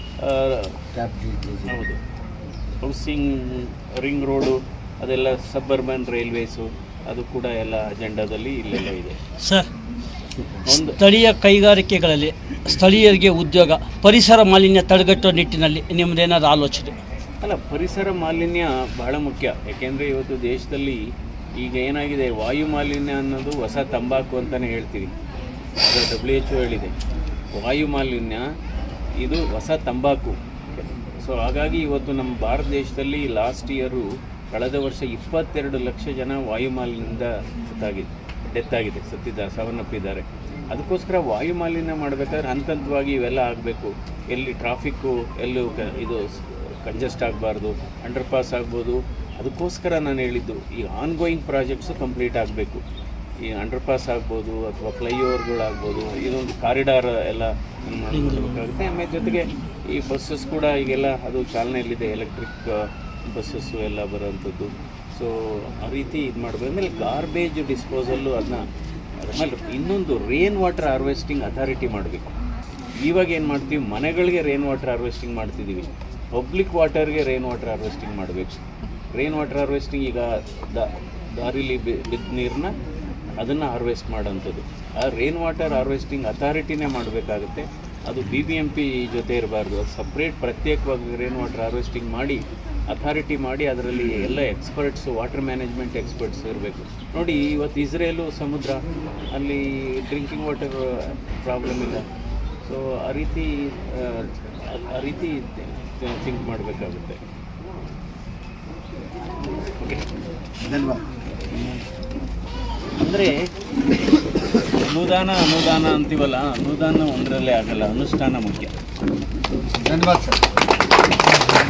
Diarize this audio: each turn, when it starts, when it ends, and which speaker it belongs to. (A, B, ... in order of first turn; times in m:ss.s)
0:00.2-0:00.8 A
0:01.0-0:01.8 B
0:01.7-0:02.0 A
0:02.8-0:09.2 A
0:09.4-0:09.7 C
0:10.6-0:11.0 A
0:10.8-0:17.0 C
0:17.4-0:21.0 A
0:21.6-0:25.1 A
0:25.8-0:26.9 A
0:27.6-0:28.4 A
0:29.2-0:52.8 A
0:53.5-1:08.6 A
1:09.2-1:12.3 A
1:13.0-1:18.6 A
1:19.1-1:22.7 A
1:23.4-1:38.8 A
1:39.3-1:42.0 A
1:42.6-1:47.2 A
1:50.6-1:51.0 B
1:51.5-1:51.8 A
1:53.0-1:53.4 A
1:54.8-1:58.7 A
1:59.7-2:00.4 B